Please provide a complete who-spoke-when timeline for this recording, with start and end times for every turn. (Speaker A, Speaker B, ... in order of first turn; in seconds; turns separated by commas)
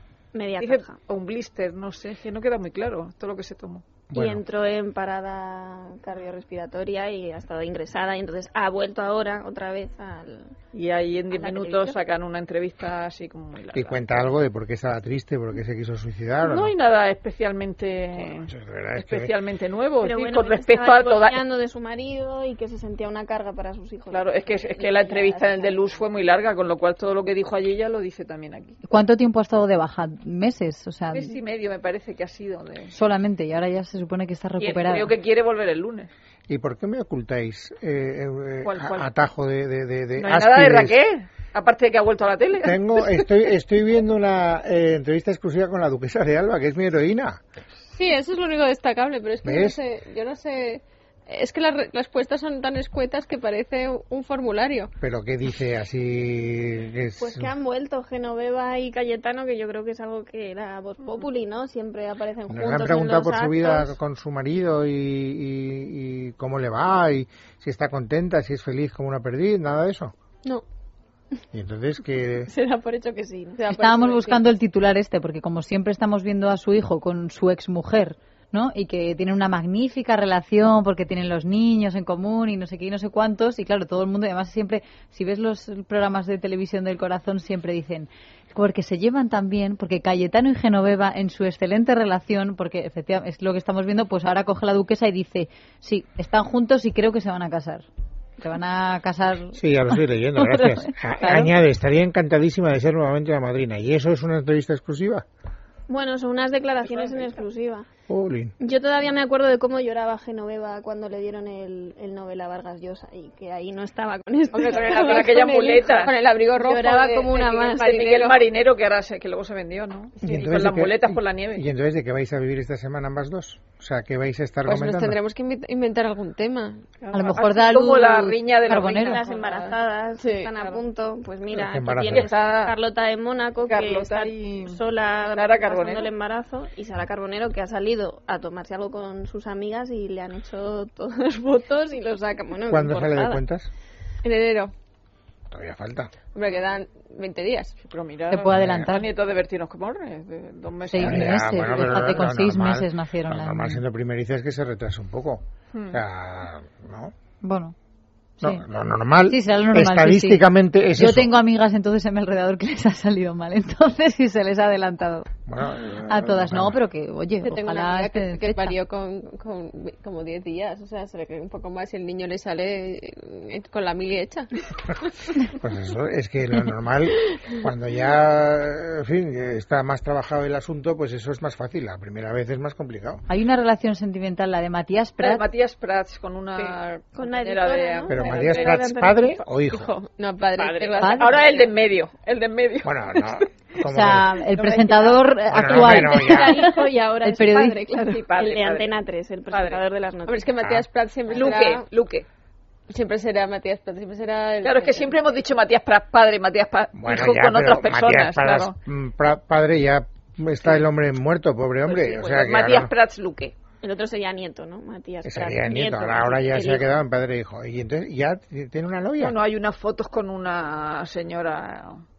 Speaker A: 0.3-1.0, Speaker B: 0.6-3.8, Speaker C: 4.1-4.4, Speaker A: 4.1-10.6, Speaker B: 10.7-14.3, Speaker A: 11.3-12.0, Speaker C: 13.7-16.7, Speaker B: 16.4-21.4, Speaker C: 18.5-19.3, Speaker A: 20.0-26.0, Speaker B: 24.1-28.8, Speaker D: 28.9-31.3, Speaker B: 31.1-32.9, Speaker D: 32.9-35.1, Speaker B: 34.6-36.1, Speaker C: 36.5-41.0, Speaker B: 38.6-39.1, Speaker B: 40.2-43.2, Speaker C: 42.6-47.4, Speaker E: 47.9-54.9, Speaker C: 49.5-49.8, Speaker C: 55.0-57.5, Speaker A: 57.2-64.0, Speaker C: 62.5-70.1, Speaker C: 71.5-72.5, Speaker E: 72.5-74.5, Speaker A: 72.9-73.6, Speaker D: 73.7-97.9, Speaker D: 98.4-101.5, Speaker C: 99.6-105.2, Speaker A: 105.9-107.9, Speaker B: 106.9-107.3, Speaker C: 108.1-108.5, Speaker A: 108.6-114.8, Speaker E: 114.5-118.4, Speaker B: 114.6-116.2, Speaker A: 116.6-117.8, Speaker B: 116.9-121.7, Speaker C: 120.2-125.2, Speaker E: 124.7-126.8, Speaker B: 127.0-129.6, Speaker D: 127.1-129.2, Speaker A: 129.0-143.4, Speaker E: 129.2-130.5, Speaker B: 130.6-130.8, Speaker C: 131.5-132.3, Speaker B: 132.1-132.7, Speaker B: 133.6-136.1, Speaker C: 142.7-143.7, Speaker E: 144.2-144.7, Speaker C: 145.5-146.1, Speaker E: 146.3-147.7, Speaker B: 147.8-152.3, Speaker D: 148.3-149.1, Speaker C: 148.5-148.8, Speaker D: 150.9-153.8, Speaker C: 151.0-157.2, Speaker B: 155.7-156.0, Speaker D: 157.4-157.7, Speaker C: 158.4-161.3, Speaker D: 159.3-160.4, Speaker D: 160.9-165.3, Speaker C: 165.5-166.8, Speaker D: 166.1-168.8, Speaker E: 167.4-174.5, Speaker C: 175.5-183.2, Speaker D: 183.3-185.5, Speaker B: 185.2-188.8, Speaker A: 187.2-189.4, Speaker C: 188.1-189.9, Speaker E: 189.7-191.7, Speaker B: 190.6-193.2, Speaker D: 191.0-191.4, Speaker C: 192.8-194.4, Speaker D: 193.9-197.8, Speaker A: 194.6-195.2, Speaker C: 195.5-196.7, Speaker A: 195.7-200.5, Speaker B: 197.9-198.9, Speaker B: 199.5-199.8, Speaker E: 200.3-201.9, Speaker B: 201.3-202.3, Speaker E: 202.9-205.2, Speaker B: 204.6-208.8, Speaker C: 206.9-212.9, Speaker B: 211.8-213.6, Speaker A: 213.8-217.0, Speaker C: 215.2-219.4, Speaker B: 219.2-222.0